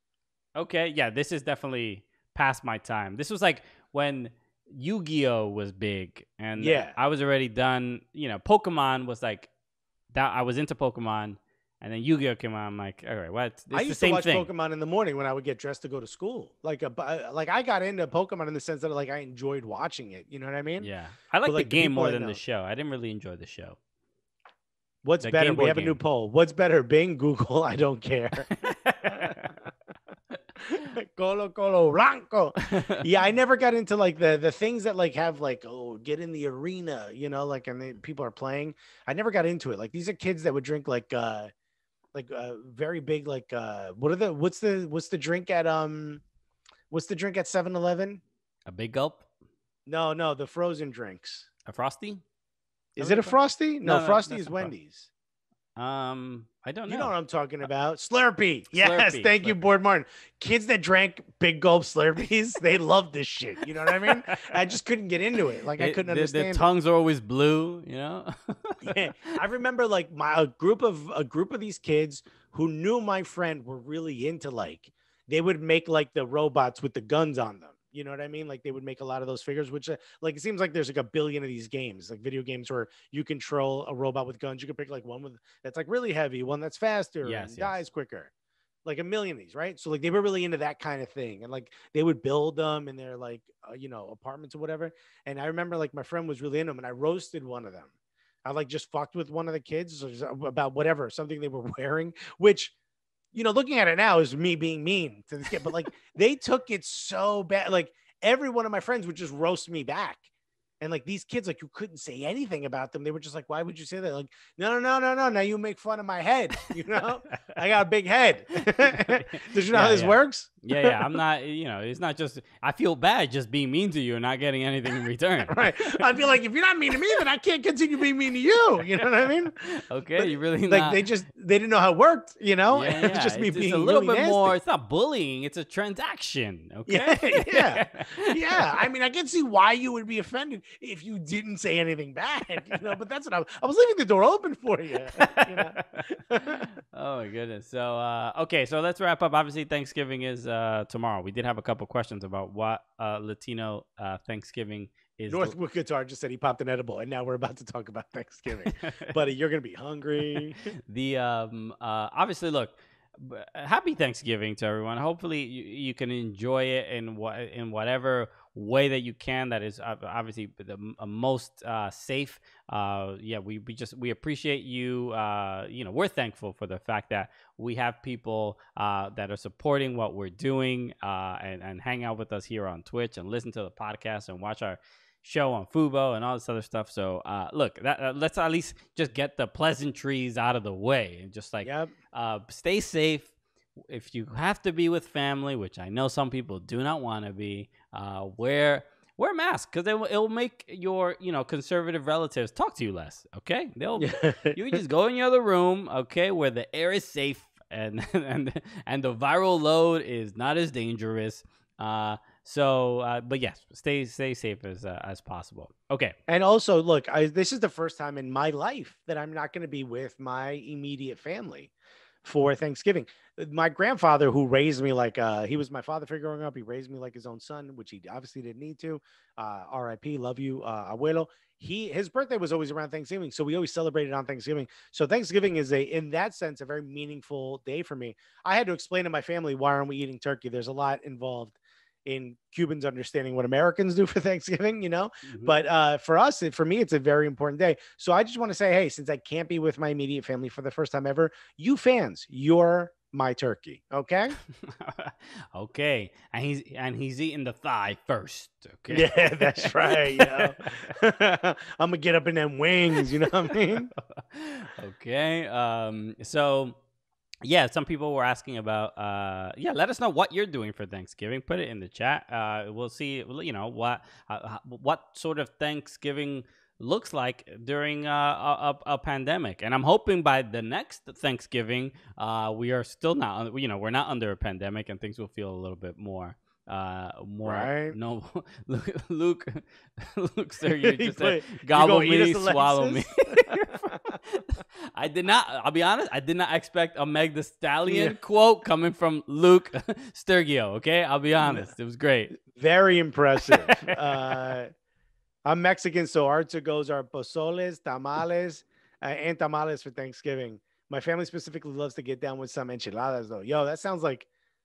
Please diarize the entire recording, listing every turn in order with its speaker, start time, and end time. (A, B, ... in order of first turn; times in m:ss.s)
0:00.6-0:09.5 A
0:06.6-0:07.0 B
0:10.1-0:14.5 A
0:13.7-0:20.9 B
0:20.8-0:23.8 A
0:21.4-0:22.4 B
0:25.0-0:28.5 B
0:25.2-0:26.0 A
0:28.6-0:29.5 A
0:29.1-0:29.6 B
0:30.6-0:41.5 B
0:32.7-0:33.0 A
0:42.1-0:46.2 B
0:46.9-0:48.2 B
0:48.7-0:49.3 A
0:49.9-0:51.5 B
0:51.6-0:52.2 A
0:53.0-0:55.1 B
0:53.0-0:54.7 A
0:55.8-0:57.1 A
0:56.9-1:06.7 B
0:58.7-0:59.6 A
1:03.9-1:04.4 A
1:05.8-1:09.0 A
1:08.8-1:28.3 B
1:27.2-1:27.8 A
1:28.8-1:37.9 B
1:38.4-1:42.7 B
1:43.3-1:50.2 B
1:50.8-2:01.1 B
1:58.7-2:06.0 A
2:05.5-2:09.6 B
2:09.6-2:11.1 A
2:10.2-2:14.6 B
2:12.7-2:18.7 A
2:16.9-2:26.7 B
2:25.2-2:35.6 A
2:35.3-2:40.7 B
2:38.6-2:39.1 A
2:40.3-3:13.3 A
3:11.6-3:11.9 B
3:13.9-3:36.2 A
3:24.0-3:24.8 B
3:36.3-3:41.7 B
3:42.2-4:14.4 B
4:05.3-4:05.6 A
4:14.7-4:20.7 A
4:18.9-4:23.9 B
4:24.2-4:26.8 A
4:27.4-5:02.4 A
4:47.4-4:48.0 B
4:50.7-4:54.2 B
4:57.9-4:58.2 B
5:01.4-5:01.7 B
5:02.4-5:04.7 B
5:03.5-5:04.3 A
5:05.4-5:14.3 B